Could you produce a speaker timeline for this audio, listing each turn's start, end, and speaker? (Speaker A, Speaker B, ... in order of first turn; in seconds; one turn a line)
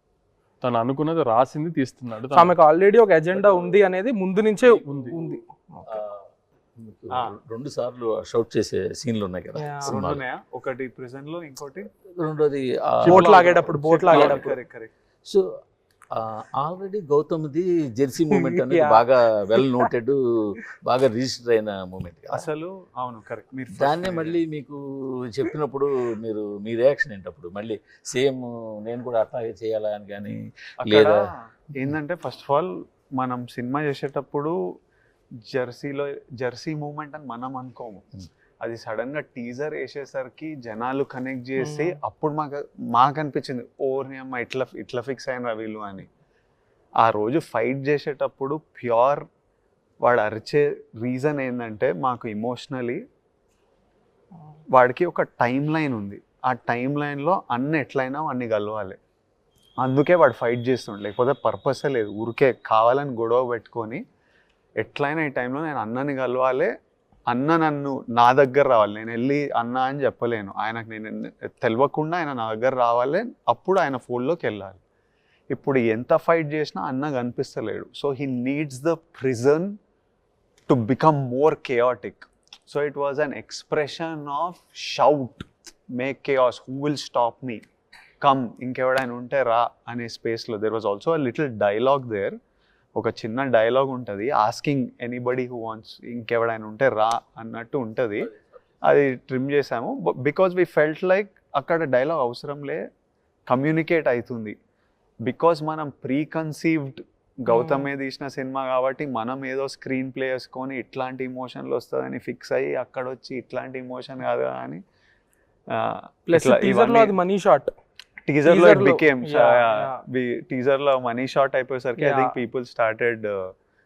Speaker A: 0.6-2.6
Speaker B: 2.3-6.0
Speaker A: 4.6-5.2
Speaker C: 5.9-10.2
Speaker B: 9.6-10.0
Speaker D: 9.9-11.9
Speaker C: 12.2-13.3
Speaker A: 13.0-14.3
Speaker B: 13.1-14.6
Speaker D: 13.2-14.9
Speaker C: 14.1-14.5
Speaker C: 16.1-22.4
Speaker B: 18.3-19.0
Speaker D: 22.3-24.4
Speaker C: 23.8-31.2
Speaker D: 30.8-34.5
Speaker D: 35.5-38.1
Speaker D: 38.6-46.1
Speaker B: 41.6-42.0
Speaker D: 47.0-49.2
Speaker D: 50.0-53.0
Speaker D: 54.7-59.0
Speaker D: 59.8-64.0
Speaker D: 64.8-66.7
Speaker D: 67.3-74.8
Speaker D: 75.5-79.8
Speaker D: 80.7-87.6
Speaker D: 88.2-92.4
Speaker D: 93.0-98.3
Speaker D: 98.8-102.8
Speaker D: 103.5-104.6
Speaker D: 105.2-114.8
Speaker B: 107.5-107.9
Speaker D: 115.7-117.2
Speaker B: 116.3-117.7
Speaker D: 118.3-123.5
Speaker B: 118.5-120.0
Speaker B: 122.0-122.3